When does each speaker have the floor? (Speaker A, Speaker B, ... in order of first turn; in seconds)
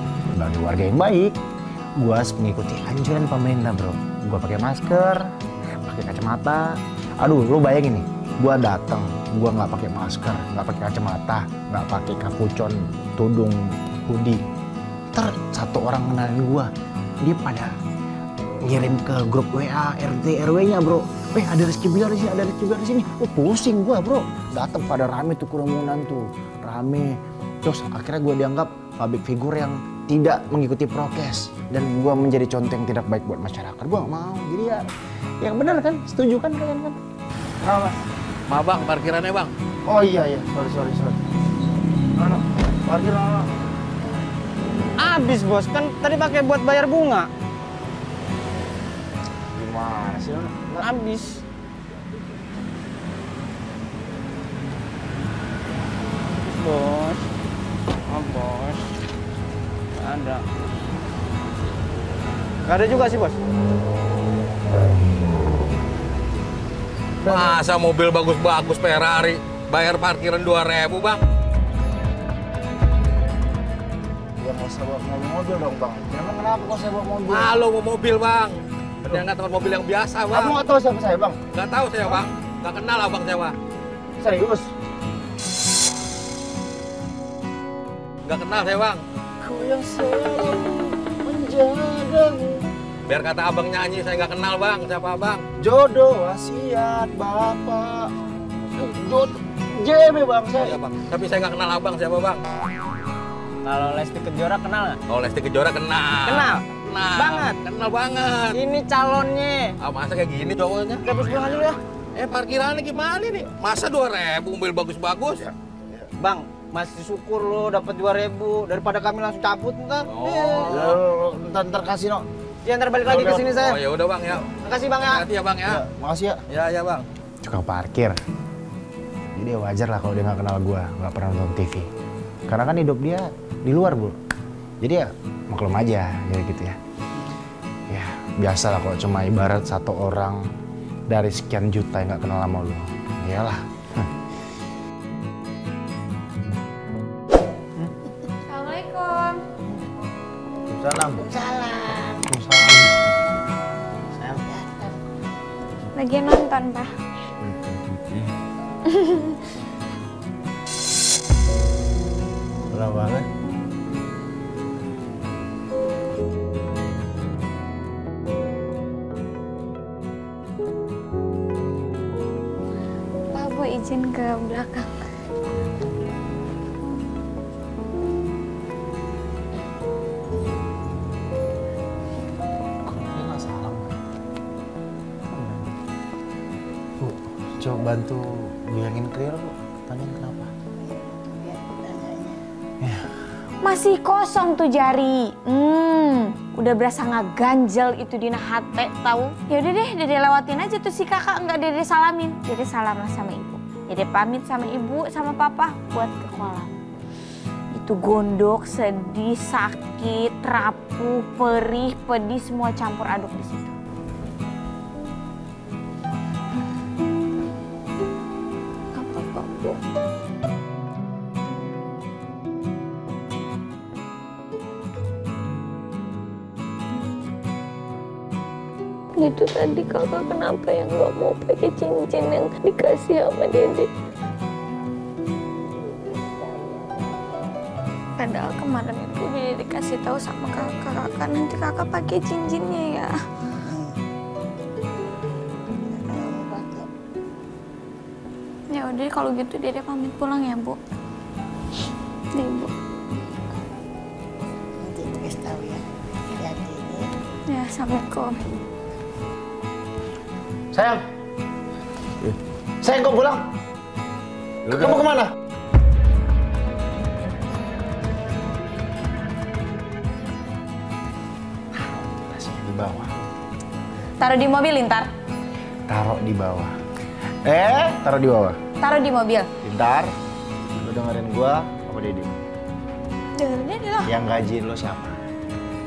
Speaker A: 0.3-1.4, 2.0-5.3, 5.8-14.4, 15.1-16.7, 17.2-17.7, 18.6-34.9, 35.4-37.0, 39.9-41.2, 42.2-43.5, 49.5-50.9, 67.2-67.6, 74.4-77.5, 80.3-81.4, 84.2-84.7, 89.4-92.6, 95.6-98.1, 98.8-100.8, 120.7-122.3, 123.0-123.5, 125.6-126.4, 127.4-128.2, 129.3-131.9, 132.5-134.2, 134.8-136.8, 137.9-140.4, 141.1-144.1, 150.7-151.2, 152.3-152.9, 154.1-154.5, 157.4-158.2, 162.7-163.3, 182.8-183.9, 185.3-185.8, 187.0-190.5, 192.8-193.1, 260.7-261.0, 262.2-263.4, 264.7-265.3, 271.7-273.2, 275.9-276.7, 277.4-278.6, 279.6-280.1, 280.8-282.3, 284.1-285.2
Speaker B: 37.6-37.9, 45.0-47.3, 50.8-51.4, 56.3-57.2, 58.1-58.8, 60.0-60.5, 62.7-63.4, 103.6-105.0, 106.2-107.6, 108.5-109.8, 111.0-111.8, 116.2-120.8, 122.7-123.8, 124.6-125.2
Speaker C: 38.5-39.5, 67.2-71.2, 77.3-80.6, 81.5-83.5, 88.2-89.0, 93.1-95.4, 100.6-102.4, 105.1-108.6, 109.8-111.2, 112.2-115.5, 120.1-121.0, 123.2-125.8, 126.5-127.0
Speaker D: 148.5-149.4, 155.9-156.9, 158.9-159.4, 173.3-174.9, 193.6-206.8, 207.7-213.7, 218.9-219.8, 229.2-233.9, 238.2-243.1, 248.7-250.8, 252.3-252.7, 257.5-258.4, 274.2-275.1, 278.8-279.5, 283.4-284.1
Speaker E: 151.2-152.2, 154.5-154.9, 190.8-192.3, 245.9-246.9, 254.8-255.8, 256.3-257.1